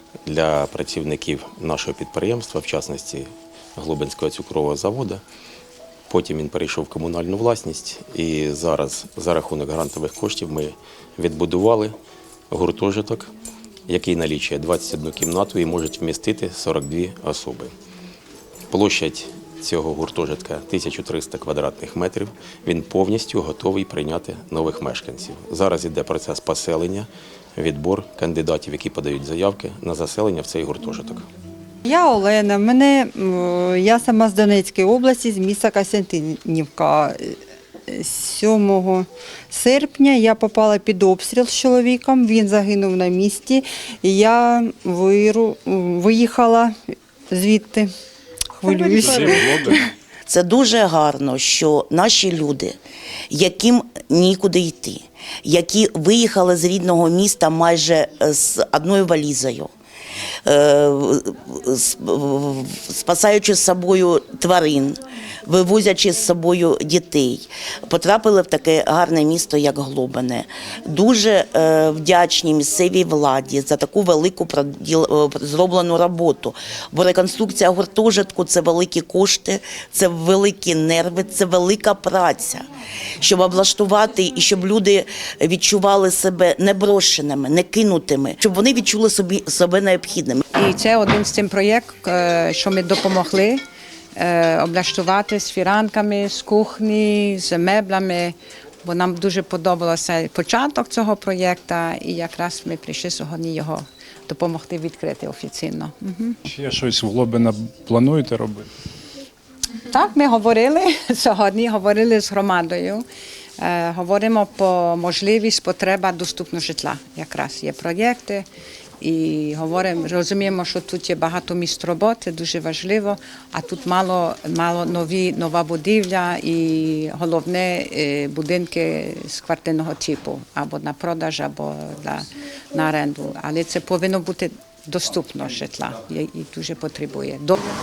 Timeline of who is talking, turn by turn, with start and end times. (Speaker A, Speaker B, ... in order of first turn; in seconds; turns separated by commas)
Speaker A: 0.2-5.2, Speaker A: 6.1-11.9, Speaker A: 12.5-13.3, Speaker A: 13.9-17.7, Speaker A: 18.7-31.2, Speaker B: 31.8-47.9, Speaker B: 48.5-49.9, Speaker C: 49.1-49.7, Speaker D: 50.2-52.7, Speaker D: 53.3-59.7, Speaker D: 60.5-82.7, Speaker D: 83.2-90.4, Speaker E: 90.5-93.6, Speaker E: 94.1-106.4, Speaker C: 106.5-108.7, Speaker E: 109.9-113.0, Speaker E: 113.6-118.5, Speaker E: 119.0-137.6